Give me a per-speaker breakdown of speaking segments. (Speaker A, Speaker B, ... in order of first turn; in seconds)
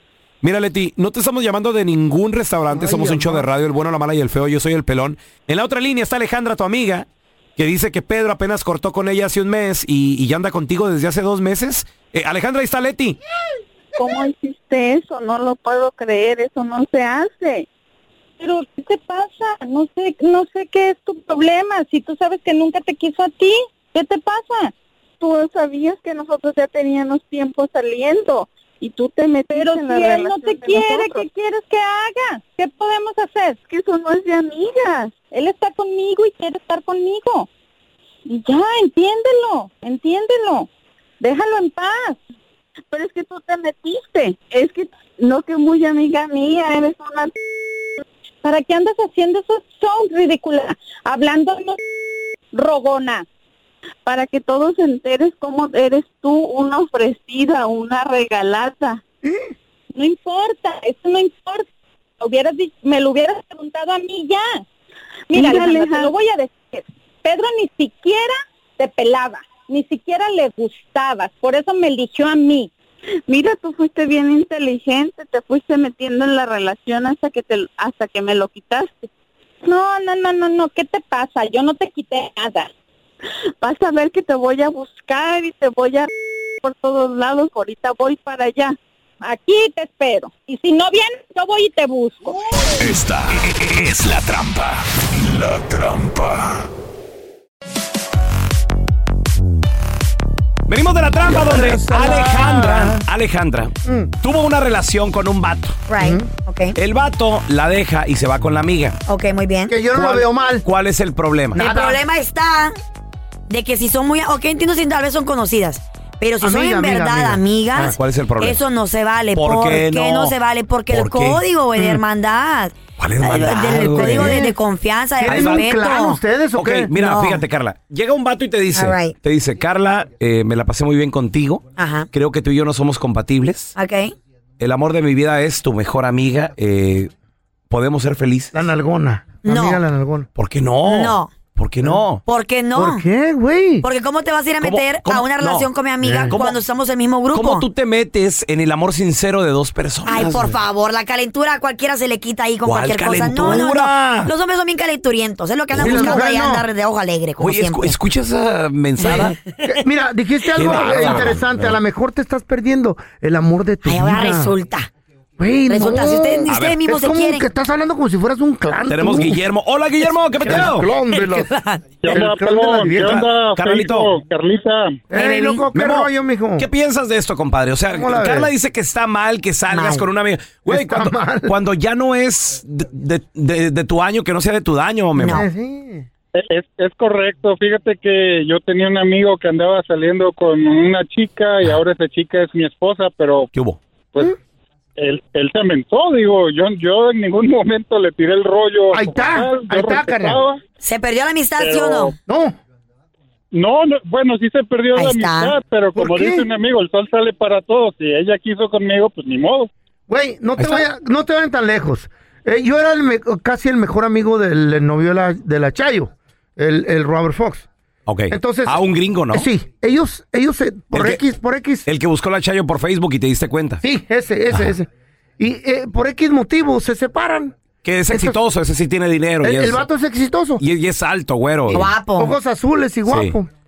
Speaker A: 0.4-13.2, 100.7-105.8, 106.8-109.0, 109.9-111.6, 117.9-118.6, 119.3-120.3, 120.9-121.4, 123.0-124.4, 125.2-125.7, 126.5-133.7, 134.6-137.1, 137.7-138.6, 140.3-142.2, 144.6-145.7, 146.3-146.6, 147.3-150.5, 152.6-154.3, 155.7-156.2, 157.4-159.3, 160.5-161.8, 166.5-166.8, 168.9-170.9, 173.1-174.1, 175.7-185.4, 193.5-193.8, 210.6-210.8, 218.1-219.5, 220.9-221.2, 221.8-223.8, 227.8-229.8, 230.6-231.9, 233.1-233.3
Speaker B: 2.7-3.5, 59.2-59.5, 101.2-103.0, 103.8-104.1, 106.0-106.3, 109.7-110.6, 111.5-112.0, 116.4-117.9, 123.5-124.6, 125.2-126.9, 138.5-140.3, 142.7-143.8, 146.0-146.3, 155.7-156.7, 159.6-164.5, 165.4-169.4, 170.4-171.5, 172.0-173.3, 175.1-176.7, 177.9-178.5, 180.7-181.5, 185.2-186.1, 198.9-200.4, 202.2-202.6, 205.9-206.4, 210.1-217.7, 218.3-218.8, 219.3-221.8, 223.8-224.9, 225.4-227.5, 228.1-228.4, 229.4-230.6, 231.7-233.5
Speaker C: 14.0-17.7, 25.2-31.2, 33.7-35.2, 42.9-47.3, 54.0-59.0, 65.3-66.1, 73.3-79.1, 83.6-86.1, 86.6-88.7
Speaker D: 18.4-24.7, 29.5-33.6, 35.3-37.5, 38.3-40.7, 41.2-42.2, 48.4-51.8, 52.5-53.2, 59.9-61.7, 62.2-64.6, 65.3-72.7, 79.6-82.7, 89.2-92.6
Speaker E: 92.8-96.5
Speaker F: 105.9-106.8, 109.1-109.8, 111.5-112.8, 113.5-126.2, 126.9-127.4, 128.7-129.1, 131.8-132.1, 133.8-134.1, 139.4-139.8, 140.8-141.3, 142.2-143.0, 143.8-147.7, 150.1-158.0, 159.0-159.4, 163.8-164.9, 165.7-167.4, 175.1-175.6, 179.7-180.1, 185.2-185.5, 200.8-202.1, 204.9-205.6, 231.7-232.3
Speaker G: 172.0-175.0, 186.3-193.5, 195.0-200.6, 201.6-202.1, 203.5-209.7